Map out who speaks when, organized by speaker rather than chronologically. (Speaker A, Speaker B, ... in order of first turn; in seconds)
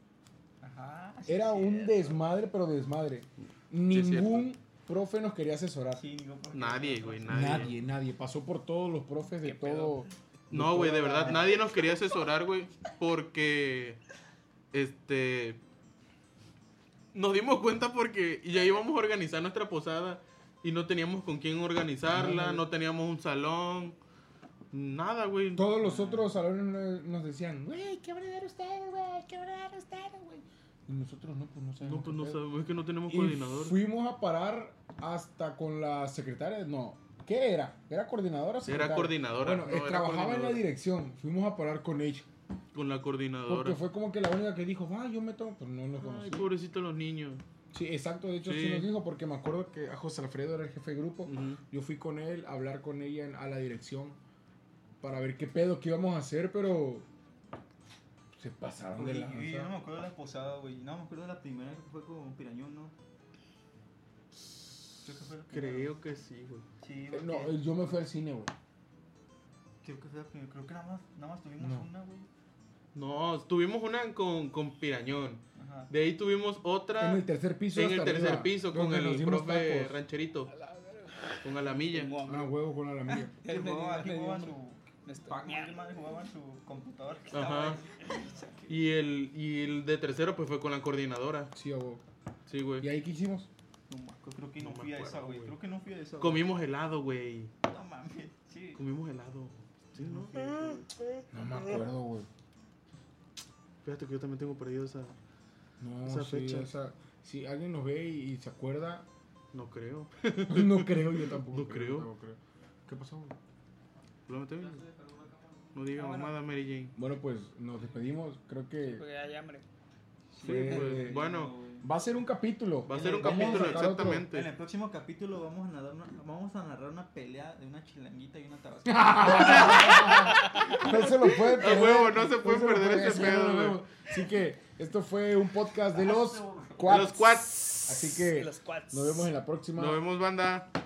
Speaker A: 0.6-2.2, 5.9-7.8, 25.8-26.3, 59.0-62.9, 65.0-65.9, 66.8-67.6, 69.8-72.3, 75.5-75.9, 83.1-88.8, 93.9-96.5, 97.6-98.8, 99.9-100.9, 114.6-116.2, 120.3-121.9, 122.9-131.0, 135.9-137.1
Speaker B: 1.2-6.0, 7.3-11.5, 22.1-22.6, 25.5-32.4, 33.0-42.3, 43.5-46.5, 47.7-54.2, 55.0-57.0, 58.4-59.7, 67.1-68.5, 71.6-71.9, 77.0-80.0, 82.2-83.3, 91.5-92.0, 92.8-93.5, 101.3-102.3, 105.8-109.0, 110.5-113.3, 116.9-119.0, 120.4-121.3, 121.8-124.3, 128.8-140.0
Speaker C: 3.9-4.5, 6.5-7.7, 10.5-14.0, 14.7-15.6, 17.1-24.0, 24.7-25.6, 31.8-33.8, 38.6-40.6, 42.7-43.8, 46.0-47.4, 48.4-48.9, 51.2-51.6, 65.5-66.7, 72.9-80.5, 81.4-82.1, 87.3-87.8, 88.7-91.5, 92.5-92.9, 94.6-95.5, 96.2-97.5, 98.8-101.2, 103.8-105.2, 106.0-106.7, 109.5-112.1, 114.3-114.8, 115.7-116.9, 120.4-121.5, 122.8-124.5, 129.2-130.3, 131.2-133.8, 136.8-138.0, 139.8-140.7
Speaker D: 9.4-10.0, 80.5-82.5, 83.4-85.8, 116.0-116.3, 118.8-119.6, 138.3-139.3